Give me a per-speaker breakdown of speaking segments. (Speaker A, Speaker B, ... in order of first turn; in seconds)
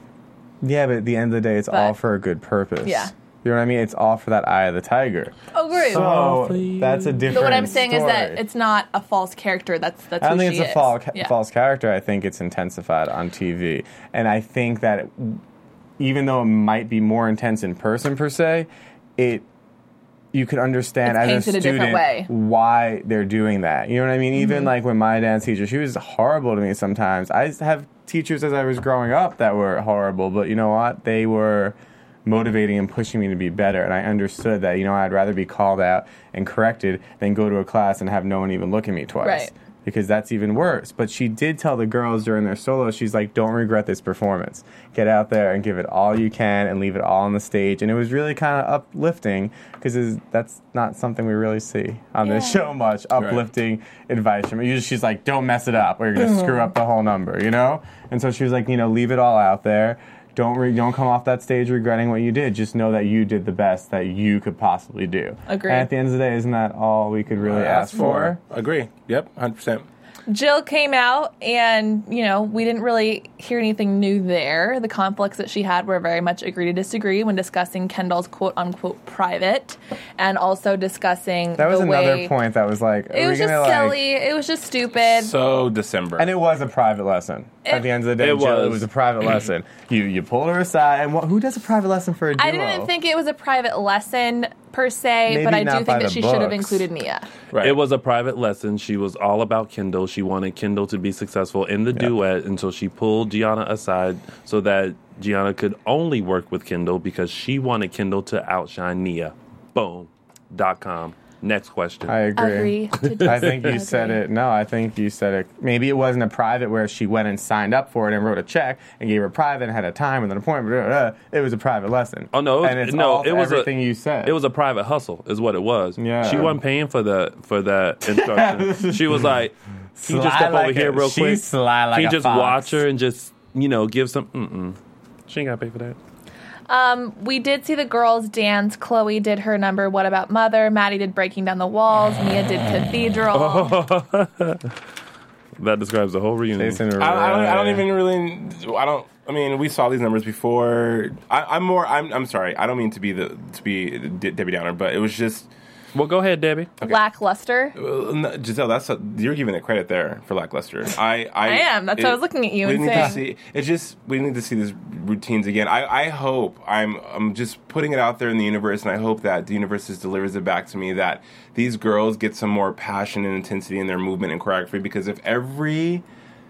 Speaker A: 0.6-8.4, 10.2-15.4, 16.0-19.5, 20.3-68.4, 81.6-84.0, 86.2-92.9, 95.3-96.9, 112.1-124.4, 126.0-126.6, 128.1-129.3, 130.0-132.8, 146.6-147.9
Speaker B: 1.7-2.0, 2.8-3.1, 5.5-6.3, 7.3-11.3, 21.1-22.3, 39.2-39.5, 52.2-52.6, 65.5-65.9, 70.3-82.3, 83.1-85.3, 87.7-87.9, 92.4-97.3, 112.4-114.2, 136.7-143.8, 156.8-157.8, 161.4-163.2
Speaker C: 5.8-7.6, 88.2-88.9, 97.6-112.2, 122.3-123.7, 124.2-136.0, 143.3-144.6, 145.6-146.8, 155.9-156.7
Speaker D: 53.2-53.4, 67.4-69.9, 85.0-86.3, 97.5-97.8, 147.0-155.5, 157.8-176.0